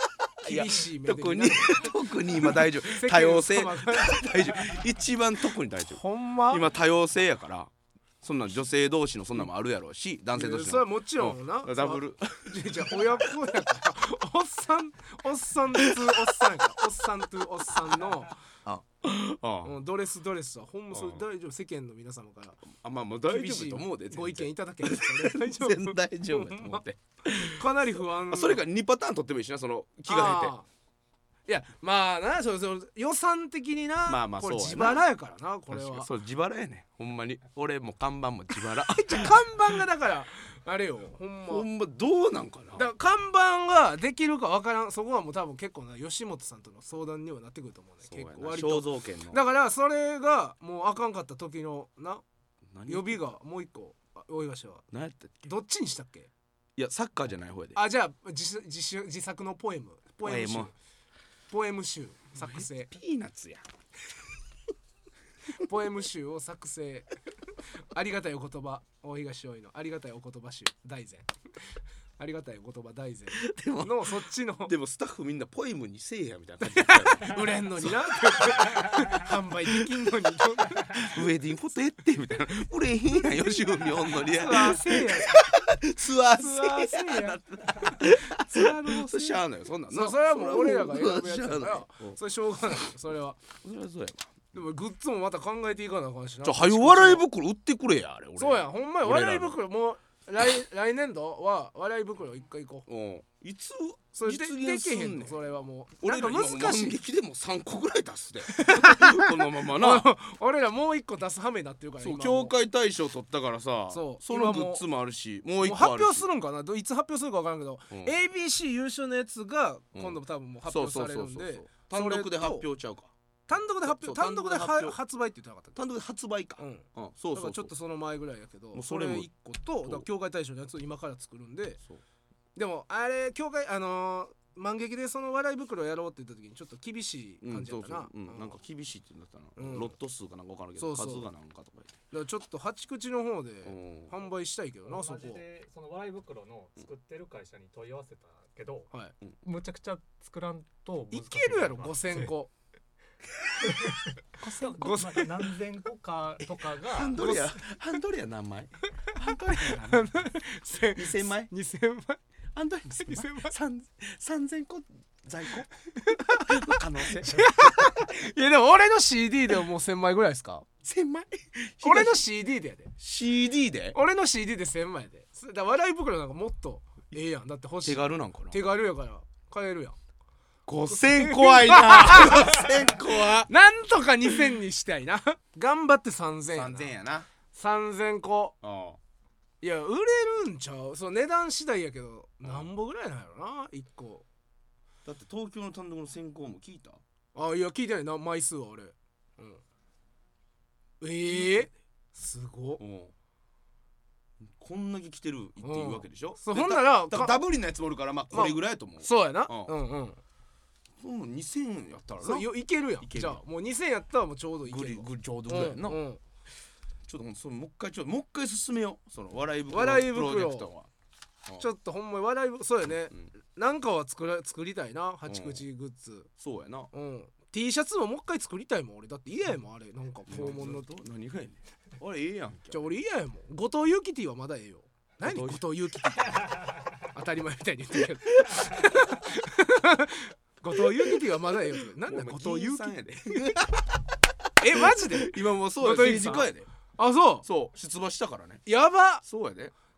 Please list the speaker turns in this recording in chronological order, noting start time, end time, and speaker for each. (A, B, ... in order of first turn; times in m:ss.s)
0:00.4-0:04.2 A
0:00.4-0:07.7 B
0:05.8-0:06.7 A
0:08.2-0:13.3 B
0:10.3-0:18.4 A
0:15.7-0:16.2 B
0:18.6-0:19.8 B
0:19.6-0:22.7 A
0:20.9-0:21.2 B
0:22.7-0:27.6 B
0:23.3-0:28.6 A
0:28.3-0:30.5 B
0:30.1-0:30.7 A
0:31.5-0:36.1 A
0:34.1-0:35.0 B
0:35.7-0:39.4 B
0:38.8-0:41.7 A
0:41.5-0:42.9 B
0:42.8-0:52.2 A
0:48.1-0:49.4 B
0:52.7-0:53.2 B
0:52.9-0:54.9 A
0:54.9-0:55.5 B
0:55.4-0:56.3 A
0:56.8-0:57.8 B
0:57.8-1:00.7 A
1:00.2-1:00.7 B
1:01.5-1:02.9 A
1:02.4-1:03.7 B
1:05.5-1:11.3 A
1:12.2-1:14.7 A
1:13.3-1:19.1 B
1:16.6-1:21.2 A
1:21.0-1:32.2 B
1:24.3-1:25.4 A
1:26.3-1:33.4 A
1:33.5-1:34.5 B
1:34.5-1:37.2 A
1:36.4-1:39.6 B
1:38.4-1:42.9 A
1:42.9-1:45.4 B
1:44.2-1:47.0 A
1:46.0-1:50.1 B
1:48.5-1:52.5 A
1:52.0-1:56.3 B
1:53.9-1:54.8 A
1:55.6-2:02.7 A
1:57.9-1:58.2 B
2:00.0-2:03.1 B
2:03.5-2:05.8 A
2:03.8-2:05.0 B
2:05.8-2:07.7 B
2:06.6-2:11.8 A
2:08.7-2:09.3 B
2:12.6-2:18.6 A
2:17.4-2:22.0 B
2:19.6-2:19.9 A
2:20.8-2:21.3 A
2:22.1-2:25.4 A
2:23.6-2:24.2 B
2:24.9-2:28.9 C
2:29.4-2:32.3 C
2:31.1-2:32.5 A
2:33.6-2:37.2 C
2:34.4-2:35.5 A
2:36.9-2:40.1 B
2:37.2-2:37.6 A
2:39.5-2:42.2 A
2:40.8-2:41.5 B
2:42.5-2:47.5 B
2:43.0-2:43.6 A
2:46.0-2:50.7 A
2:50.8-2:52.2 B
2:51.8-2:52.9 A
2:53.0-2:54.0 B
2:53.9-3:00.0 A
2:57.8-2:58.6 B
3:00.7-3:03.5 B
3:00.9-3:06.9 A
3:04.3-3:04.6 B
3:06.5-3:07.3 B
3:07.5-3:08.6 A
3:08.6-3:09.0 B
3:09.6-3:14.2 A
3:15.0-3:17.0 B
3:17.4-3:19.6 A
3:21.0-3:22.8 A
3:21.3-3:21.7 B
3:22.8-3:23.1 B
3:24.6-3:29.8 B
3:25.6-3:27.5 A
3:28.3-3:30.2 A
3:31.0-3:33.4 B
3:32.2-3:36.2 A
3:34.6-3:36.0 B
3:37.1-3:40.9 B
3:39.7-3:40.7 A
3:41.6-3:46.3 A
3:45.3-3:45.6 B
3:46.4-3:46.9 B
3:46.9-3:50.9 A
3:50.3-3:52.9 B
3:52.7-4:03.5 A
3:55.2-3:55.7 B
4:00.8-4:03.8 B
4:04.6-4:07.5 A
4:04.7-4:06.7 B
4:07.4-4:08.6 B
4:08.7-4:09.2 A
4:09.2-4:09.7 B